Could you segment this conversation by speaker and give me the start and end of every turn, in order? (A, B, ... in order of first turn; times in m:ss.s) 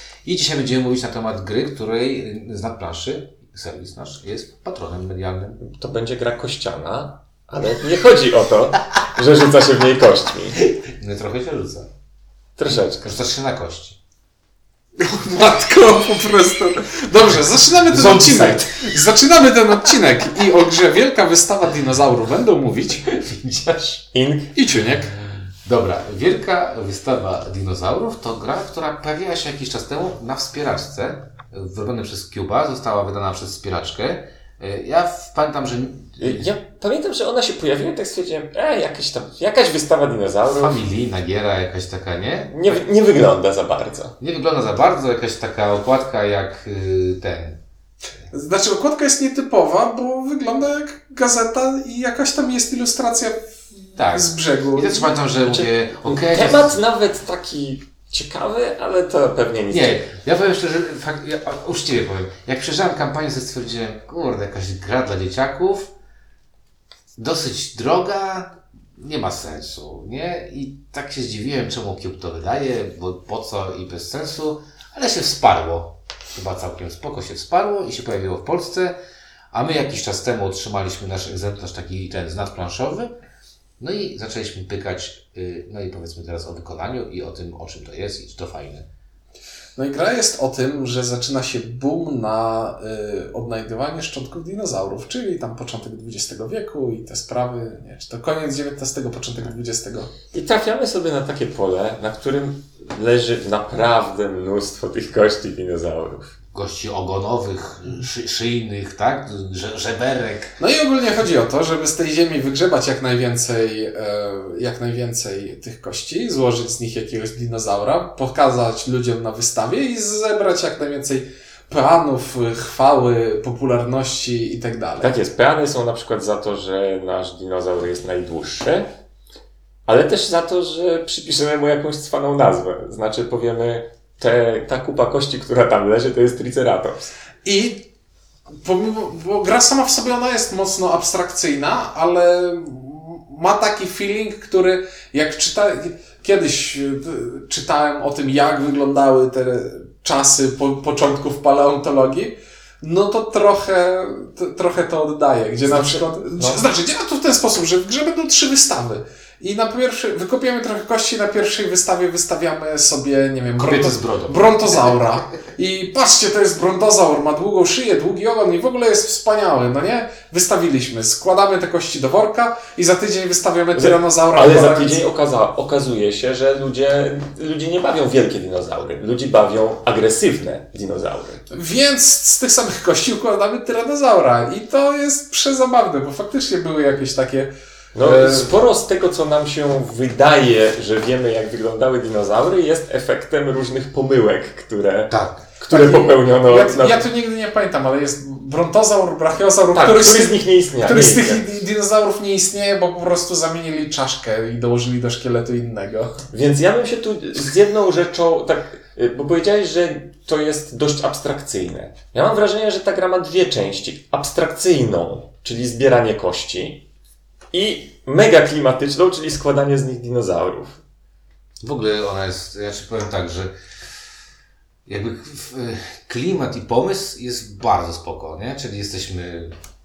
0:00.2-0:05.6 A
0:05.6-0:10.6 B
0:10.6-0:11.9 A
0:12.6-0:13.2 B
0:12.7-0:14.0 A
0:15.0-0:23.1 C
0:17.9-0:18.9 A
0:23.1-0:24.0 A
0:24.1-0:24.5 B
0:24.6-0:25.1 C
0:25.6-0:36.5 A
0:36.2-0:40.8 B
0:40.5-0:42.8 A
0:42.5-0:44.2 B
0:44.2-0:47.6 A
0:48.3-0:55.2 C
0:54.0-0:56.8 A
0:55.5-1:00.0 B
0:59.7-1:05.9 A
1:07.2-1:19.0 A
1:19.5-1:23.1 A
1:23.8-1:28.9 A
1:29.8-1:40.1 C
1:40.3-1:46.3 B
1:46.5-1:50.6 A
1:50.6-2:05.1 C
2:05.0-2:08.9 B
2:09.9-2:17.1 B
2:17.4-2:17.9 C
2:18.6-2:55.0 C
2:35.7-2:36.6 B
2:43.6-2:45.2 A
2:53.8-3:01.4 B
3:01.5-3:08.5 C
3:08.0-3:17.0 B
3:15.1-3:15.4 A
3:15.7-3:26.2 C
3:19.7-3:21.4 B
3:26.3-3:36.8 B
3:37.5-3:40.8 B
3:41.6-3:43.5 A
3:44.9-3:49.5 A